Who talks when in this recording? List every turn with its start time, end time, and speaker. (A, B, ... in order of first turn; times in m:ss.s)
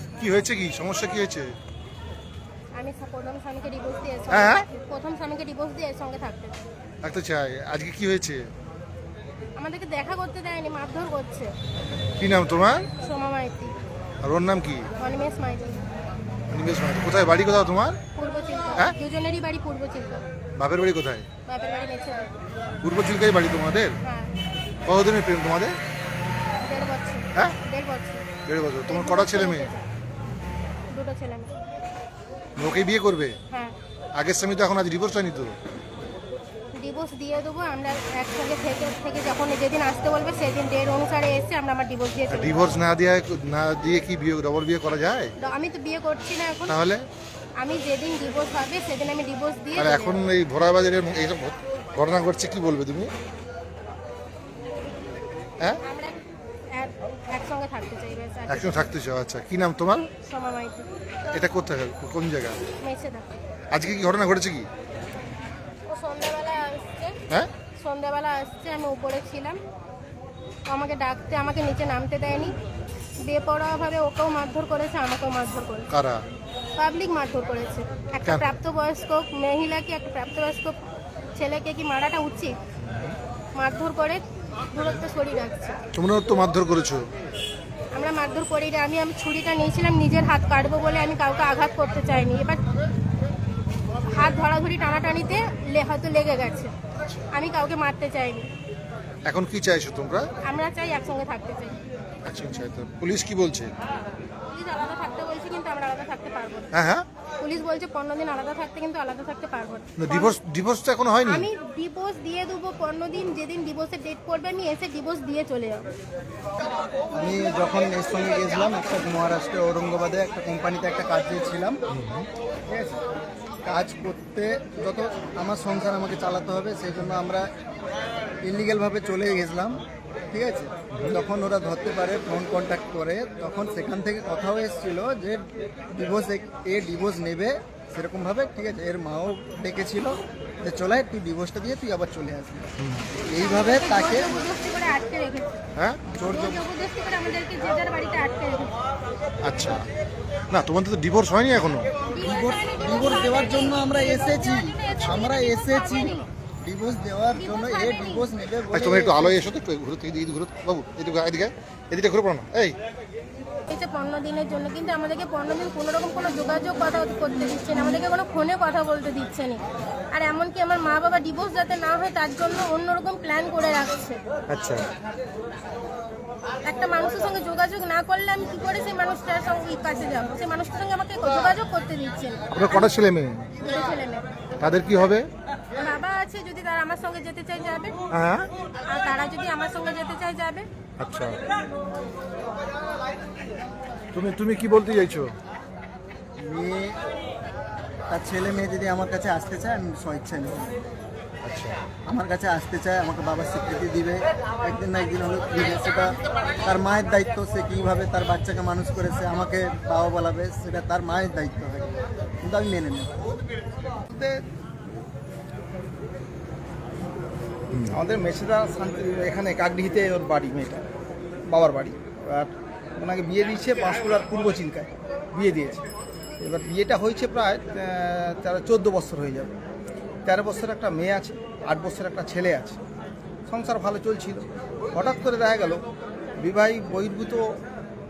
0:00.2-0:01.5 A
0:02.7-0:06.6 B
0:04.3-0:04.6 A
0:07.0-0:08.4 A
0:09.6-0:11.5 B
0:12.2-0:12.9 A
0:12.9-0:13.7 B
0:14.2-0:14.9 A
0:15.0-0:15.8 B
0:16.5-0:18.0 A
0:18.1-0:20.2 B
0:20.6-0:21.3 A
0:21.4-0:22.3 B
0:22.8-0:24.0 A
0:24.0-0:24.3 B
0:24.8-0:25.8 A
0:26.6-0:28.2 B
0:28.4-0:29.7 A
0:28.9-0:29.9 B
0:30.9-0:31.5 B
0:32.6-0:33.4 A
0:34.2-0:35.6 A
0:36.8-0:42.7 B
0:42.3-0:45.3 A
0:45.4-0:46.8 B
0:46.7-0:47.0 A
0:47.6-0:50.2 B
0:49.8-0:53.1 A
0:55.8-0:56.1 B
0:56.7-0:58.9 B
0:58.5-1:00.1 A
1:00.1-1:00.9 B
1:01.3-1:02.6 A
1:02.8-1:03.3 B
1:03.7-1:04.7 A
1:05.9-1:07.2 B
1:07.8-1:09.6 B
1:10.7-1:12.5 B
1:13.2-1:15.9 B
1:15.9-1:16.2 A
1:16.8-1:20.8 B
1:18.2-1:18.5 A
1:21.3-1:22.6 B
1:22.8-1:23.2 A
1:23.6-1:25.8 B
1:25.9-1:27.0 A
1:27.9-1:32.6 B
1:34.1-1:36.7 B
1:37.3-1:38.5 B
1:39.2-1:40.3 A
1:40.4-1:41.8 B
1:42.2-1:43.7 A
1:44.5-1:46.7 B
1:46.7-1:47.0 A
1:47.4-1:50.4 B
1:50.0-1:51.5 A
1:51.2-1:55.9 B
1:57.2-2:01.8 C
2:01.9-2:02.3 A
2:02.7-2:03.0 C
2:03.6-2:07.5 C
2:08.4-2:24.4 C
2:22.8-2:23.0 A
2:23.3-2:25.6 B
2:25.8-2:26.0 A
2:26.1-2:26.7 C
2:26.2-2:28.7 B
2:29.4-2:29.8 A
2:30.5-2:31.9 A
2:32.0-2:36.2 B
2:32.2-2:39.4 C
2:37.3-2:38.3 B
2:38.7-2:42.8 A
2:43.7-2:49.6 B
2:50.1-2:54.2 B
2:54.5-2:54.9 A
2:56.6-3:02.9 B
3:02.5-3:03.5 A
3:03.6-3:04.2 B
3:04.6-3:05.2 A
3:05.8-3:08.0 B
3:08.1-3:08.5 A
3:08.8-3:10.7 B
3:11.0-3:11.4 A
3:14.1-3:15.3 A
3:16.4-3:17.0 C
3:18.1-3:20.8 C
3:21.4-3:21.8 A
3:22.1-3:33.2 C
3:34.1-3:34.4 D
3:37.9-3:40.9 D
3:41.5-3:45.8 D
3:46.4-3:49.6 D
3:50.2-3:52.8 D
3:53.5-3:55.8 D
3:56.4-3:57.6 D